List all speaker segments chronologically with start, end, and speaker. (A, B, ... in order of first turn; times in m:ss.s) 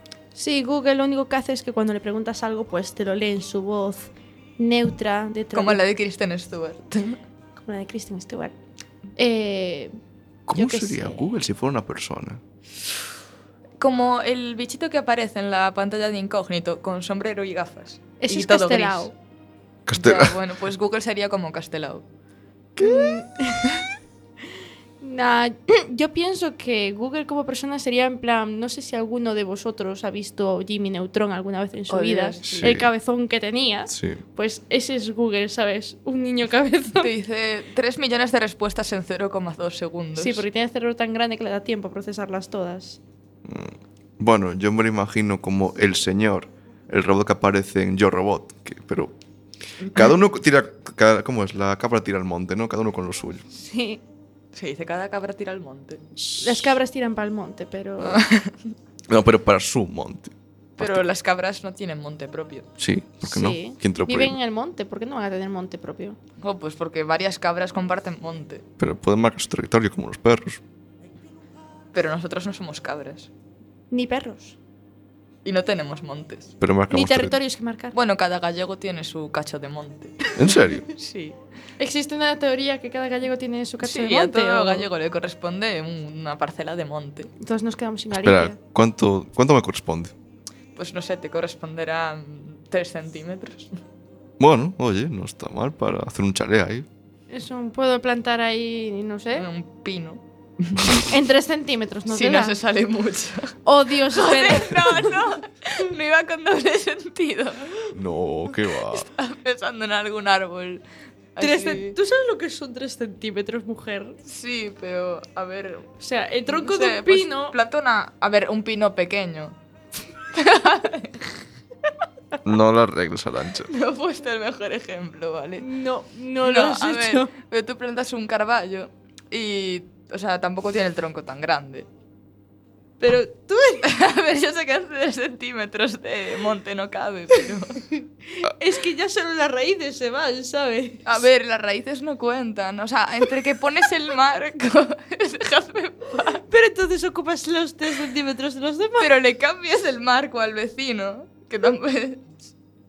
0:00.3-0:05.8 A
0:05.5-0:07.2 B
0:07.6-0:08.6 A
0:09.2-0:09.9 A
0:10.5-0:12.4 C
0:10.5-0:11.3 A
0:13.8-0:19.1 B
0:18.2-0:19.1 A
0:19.8-0:20.4 C
0:19.9-0:22.0 B
0:22.8-0:23.2 C
0:22.8-0:23.8 A
0:25.0-0:37.1 A
0:31.9-0:32.8 B
0:32.4-0:32.9 C
0:33.9-0:34.2 C
0:37.0-0:40.4 B
0:40.2-0:43.0 A
0:43.4-0:49.1 C
0:49.9-0:53.5 C
0:53.5-0:54.0 A
0:54.5-0:56.0 B
0:56.2-0:56.7 C
0:56.4-0:58.2 A
0:58.0-0:58.5 B
0:59.1-1:01.0 C
1:00.8-1:02.7 B
1:02.8-1:04.4 C
1:03.2-1:06.2 A
1:06.4-1:08.6 B
1:08.8-1:10.6 C
1:11.9-1:13.3 B
1:13.9-1:14.6 A
1:15.4-1:16.5 B
1:16.6-1:17.4 C
1:16.9-1:18.0 A
1:17.9-1:21.4 B
1:20.4-1:20.9 C
1:21.8-1:24.9 A
1:23.8-1:27.3 B
1:27.4-1:28.6 A
1:28.2-1:30.1 C
1:30.8-1:33.8 B
1:34.4-1:36.9 C
1:37.3-1:39.4 A
1:39.3-1:41.0 B
1:40.9-1:42.5 A
1:42.1-1:47.9 B
1:43.6-1:45.2 A
1:47.9-1:49.1 C
1:48.8-1:50.8 B
1:51.4-1:52.0 B
1:51.4-1:54.2 A
1:54.2-1:55.9 B
1:56.0-1:57.5 A
1:56.5-1:59.5 B
2:00.3-2:01.2 B
2:02.4-2:03.7 C
2:03.7-2:05.7 B
2:05.6-2:07.3 A
2:06.4-2:11.9 B
2:13.0-2:13.9 A
2:13.8-2:17.8 B
2:18.3-2:21.1 A
2:21.0-2:26.4 B
2:26.5-2:29.1 A
2:29.0-2:32.2 B